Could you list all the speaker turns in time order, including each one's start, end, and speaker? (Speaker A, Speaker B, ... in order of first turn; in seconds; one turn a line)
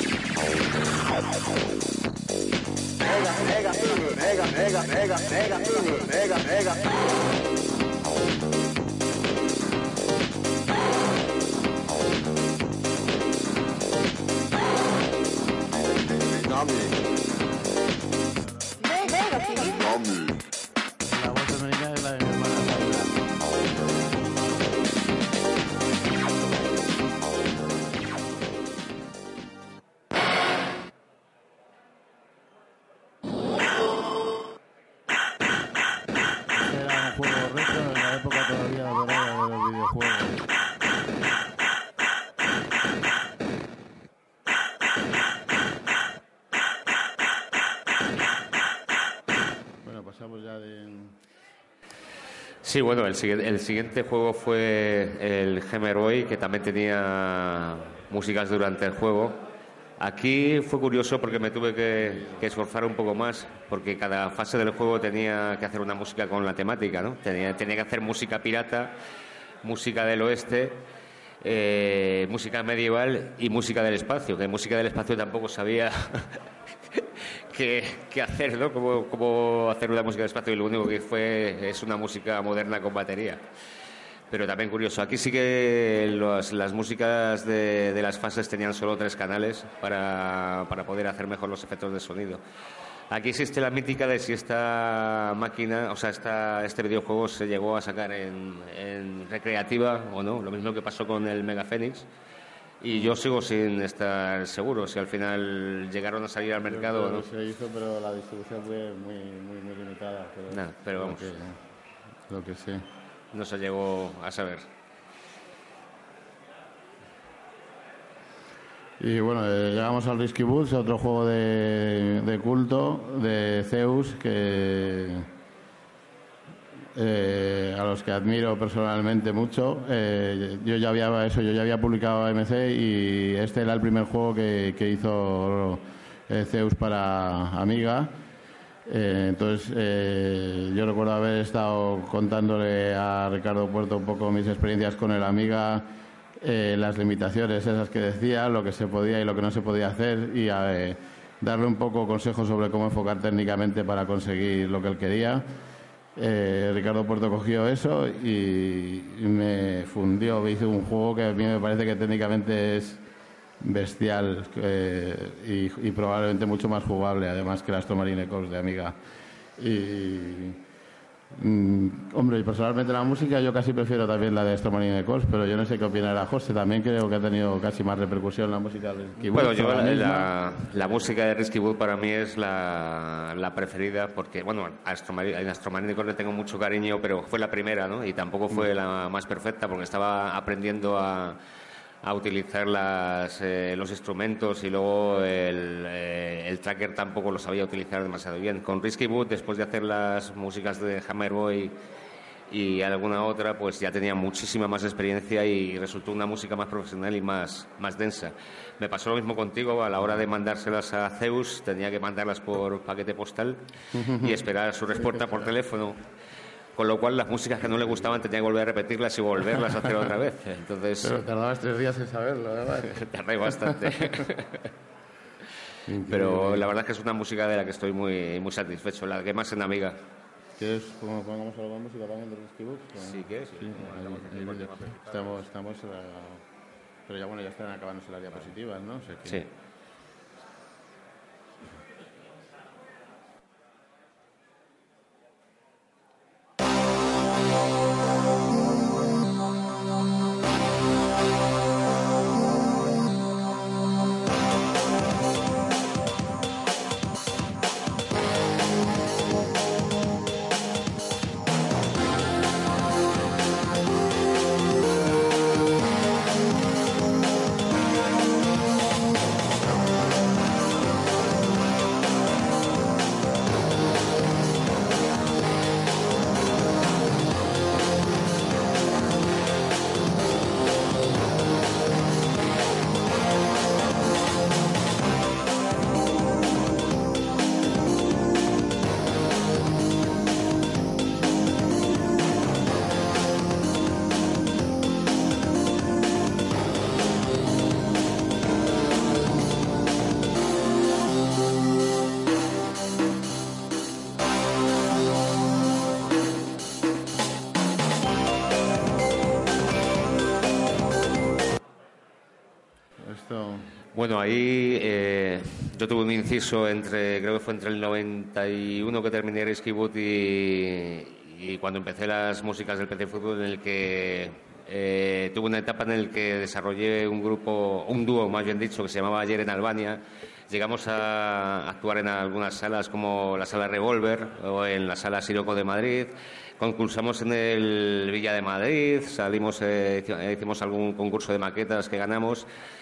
Speaker A: 21.1-23.2
Speaker A: 36.5-40.5
Speaker A: 49.8-51.2
Speaker B: 52.6-59.4
Speaker B: 60.0-68.9
Speaker A: 62.0-62.5
Speaker B: 69.6-70.9
Speaker B: 71.4-83.4
Speaker B: 84.3-92.4
Speaker B: 93.1-102.1
Speaker B: 102.8-107.2
Speaker A: 102.9-103.2
Speaker A: 106.6-111.6
Speaker B: 110.5-111.3
Speaker A: 112.3-112.8
Speaker B: 113.3-114.7
Speaker A: 119.0-125.3
Speaker A: 126.9-138.2
Speaker A: 138.9-145.9
Speaker A: 146.4-155.4
Speaker A: 156.2-163.0
Speaker A: 163.6-169.0
Speaker A: 169.6-170.6
Speaker A: 171.3-181.1
Speaker B: 179.3-191.4
Speaker B: 192.0-201.8
Speaker B: 202.5-216.1
Speaker A: 213.9-214.4
Speaker A: 214.9-215.5
Speaker B: 216.8-221.2
Speaker A: 217.7-218.1
Speaker A: 221.0-224.3
Speaker B: 222.9-224.7
Speaker A: 225.9-226.7
Speaker B: 226.1-230.0
Speaker A: 230.6-236.4
Speaker B: 233.0-235.4
Speaker A: 237.1-239.4
Speaker A: 313.0-313.7
Speaker B: 313.9-342.5